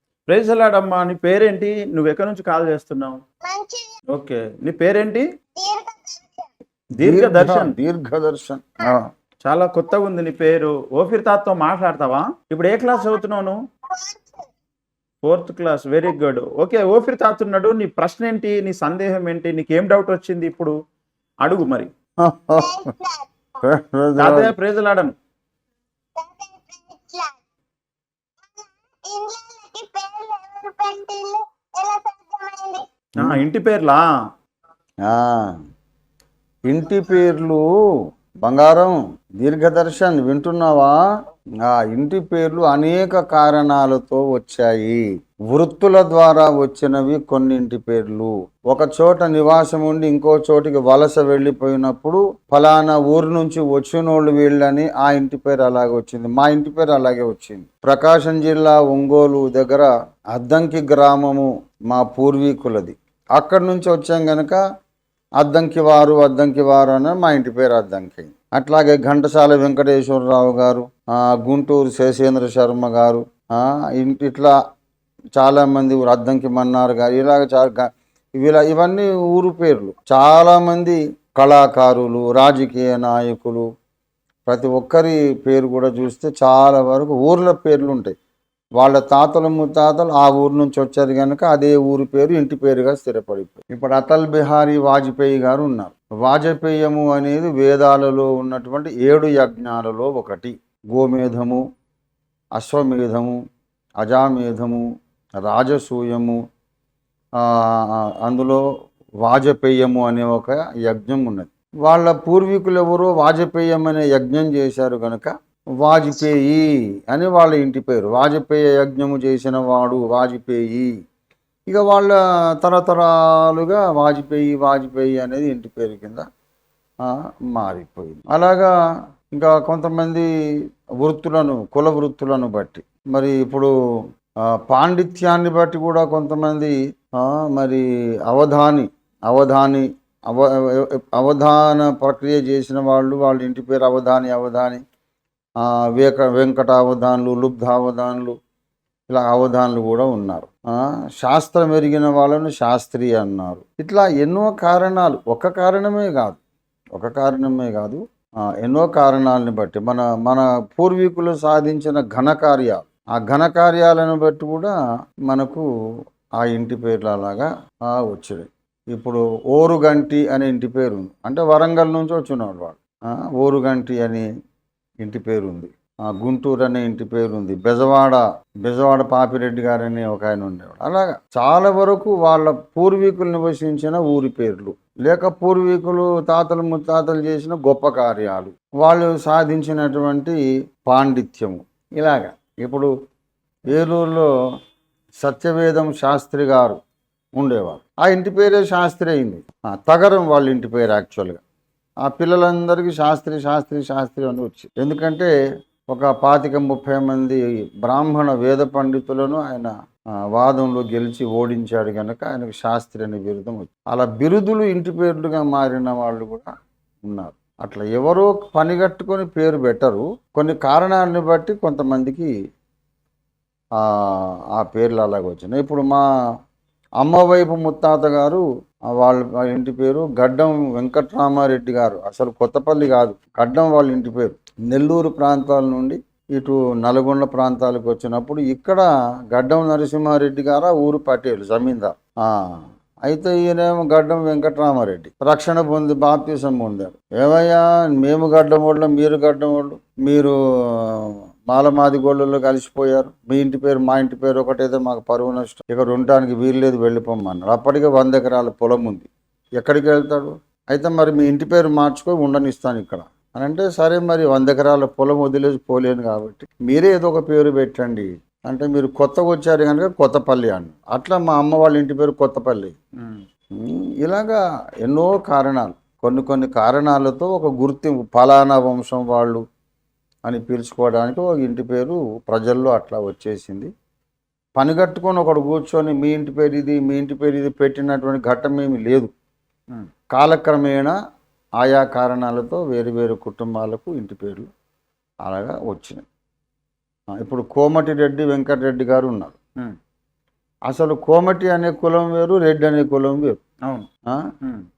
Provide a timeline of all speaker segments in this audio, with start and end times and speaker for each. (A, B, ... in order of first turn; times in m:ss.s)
0:00.3-0:03.2 A
0:03.4-0:03.9 B
0:04.1-0:05.2 A
0:05.6-0:06.5 B
0:07.0-0:07.7 A
0:07.0-0:09.1 C
0:09.4-0:13.6 A
0:13.9-0:14.4 B
0:15.2-0:20.7 A
0:21.4-0:21.9 A
0:22.2-0:22.9 C
0:22.6-0:23.3 B
0:23.6-0:24.5 C
0:24.2-0:25.2 A
0:26.2-0:27.4 B
0:28.4-0:32.9 B
0:33.2-0:34.0 A
0:35.0-0:35.5 C
0:36.7-0:37.6 C
0:38.4-0:41.0 C
0:41.6-1:04.6 C
1:05.4-1:14.5 C
1:15.4-1:23.6 C
1:24.4-1:28.1 C
1:28.8-1:41.6 C
1:42.6-1:43.4 C
1:44.0-1:44.8 C
1:45.4-1:46.4 C
1:47.4-1:48.6 C
1:49.2-2:00.9 C
2:01.7-2:06.2 C
2:07.0-2:08.7 C
2:09.3-2:10.3 C
2:11.0-2:13.7 C
2:14.5-2:24.8 C
2:25.6-2:28.3 C
2:29.1-2:36.4 C
2:37.0-2:38.0 C
2:38.6-2:44.7 C
2:45.3-2:45.6 C
2:46.4-2:54.2 C
2:55.0-3:12.9 C
3:13.7-3:14.3 C
3:15.2-3:16.8 C
3:17.4-3:21.4 C
3:22.0-3:25.3 C
3:25.9-3:29.7 C
3:30.3-3:36.5 C
3:37.0-3:42.3 C
3:43.8-3:46.0 C
3:47.0-3:48.4 C
3:49.0-4:32.7 C
4:33.6-4:39.4 C
4:40.3-4:43.7 C
4:44.6-4:49.1 C
4:50.1-4:50.9 C
4:51.6-4:54.5 C
4:55.2-4:56.0 C
4:57.2-4:59.4 C
5:00.7-5:03.4 C